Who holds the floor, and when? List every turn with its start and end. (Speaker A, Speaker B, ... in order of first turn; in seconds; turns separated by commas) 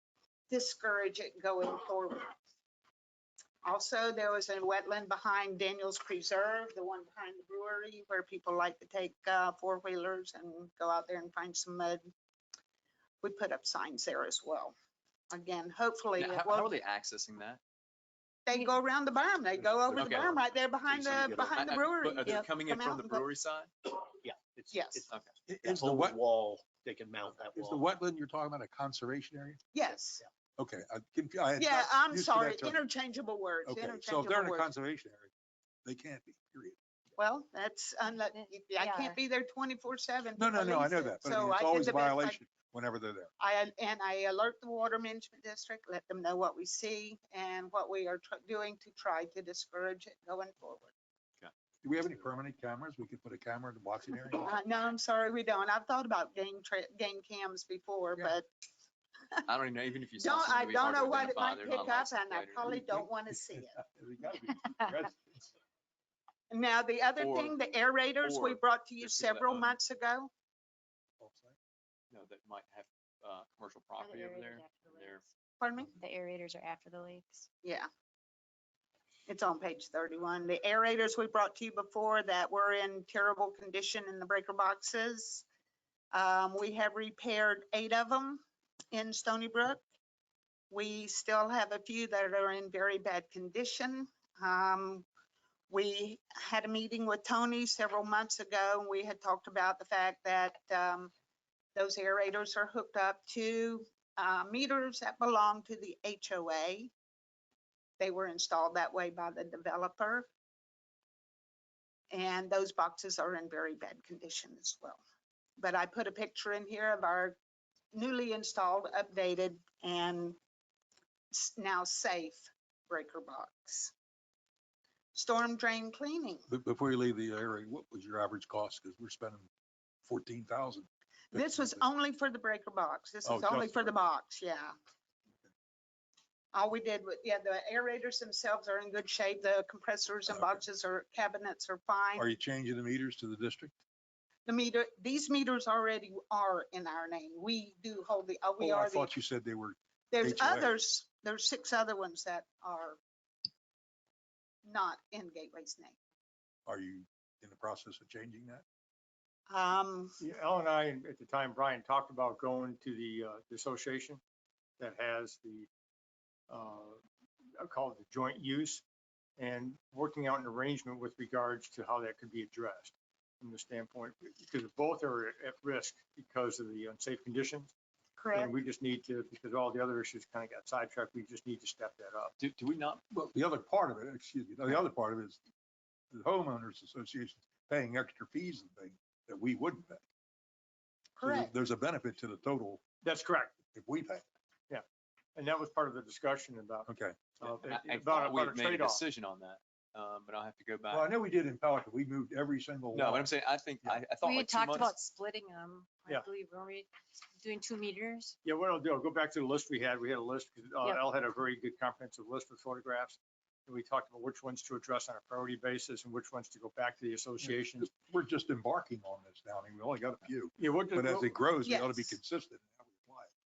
Speaker A: 0.5-2.3, Speaker A: 3.6-12.1, Speaker A: 13.2-14.7, Speaker A: 15.3-16.7, Speaker B: 16.2-17.6, Speaker A: 18.4-23.3, Speaker C: 19.7-21.8, Speaker B: 19.9-20.3, Speaker B: 21.5-23.7, Speaker C: 24.2-25.1, Speaker A: 24.7-25.1, Speaker D: 25.5-26.2, Speaker C: 25.6-27.8, Speaker D: 27.5-29.6, Speaker A: 29.7-30.2, Speaker D: 30.6-32.8, Speaker A: 31.6-34.7, Speaker D: 33.6-35.3, Speaker D: 35.9-36.8, Speaker A: 37.2-42.4, Speaker E: 38.3-39.2, Speaker D: 40.4-43.3, Speaker A: 43.4-50.9, Speaker D: 51.8-54.6, Speaker A: 54.4-58.5, Speaker B: 59.4-62.7, Speaker A: 60.2-63.8, Speaker D: 62.6-63.1, Speaker D: 64.0-64.5, Speaker A: 66.5-70.3, Speaker B: 67.2-67.6, Speaker B: 68.2-69.7, Speaker D: 71.2-71.5, Speaker B: 72.1-75.2, Speaker E: 74.0-75.1, Speaker A: 75.6-75.9, Speaker E: 76.0-77.5, Speaker A: 79.3-85.5, Speaker A: 86.1-89.8, Speaker A: 90.7-95.1, Speaker A: 95.7-101.1, Speaker A: 101.8-106.9, Speaker A: 108.0-110.3, Speaker A: 112.1-115.0, Speaker A: 115.6-117.4, Speaker A: 117.9-120.4, Speaker A: 121.3-123.9, Speaker A: 125.1-126.5, Speaker D: 126.5-129.5, Speaker D: 130.1-131.8, Speaker A: 131.3-134.7, Speaker D: 133.2-133.9, Speaker A: 136.5-142.3, Speaker D: 140.3-140.6, Speaker D: 142.2-143.7, Speaker A: 144.5-149.1, Speaker D: 148.6-150.7, Speaker A: 150.1-153.0, Speaker A: 154.7-156.0, Speaker D: 156.7-158.6, Speaker A: 159.5-160.2, Speaker F: 160.2-164.2, Speaker F: 164.8-165.7, Speaker F: 166.5-167.0, Speaker F: 167.6-168.8, Speaker F: 169.4-177.7, Speaker A: 178.2-178.5, Speaker F: 178.4-182.3, Speaker B: 182.4-183.1, Speaker D: 183.1-185.4, Speaker D: 186.1-190.0, Speaker A: 191.2-191.5, Speaker D: 191.2-192.8, Speaker F: 193.0-193.5, Speaker D: 193.7-194.2, Speaker F: 195.3-196.9, Speaker D: 196.9-197.2, Speaker F: 197.4-199.0, Speaker B: 197.4-201.1, Speaker D: 200.9-203.3, Speaker B: 202.9-204.9, Speaker E: 204.2-206.9, Speaker E: 207.4-208.3, Speaker F: 208.4-217.9, Speaker D: 217.4-223.3, Speaker F: 220.6-221.3, Speaker A: 221.6-222.2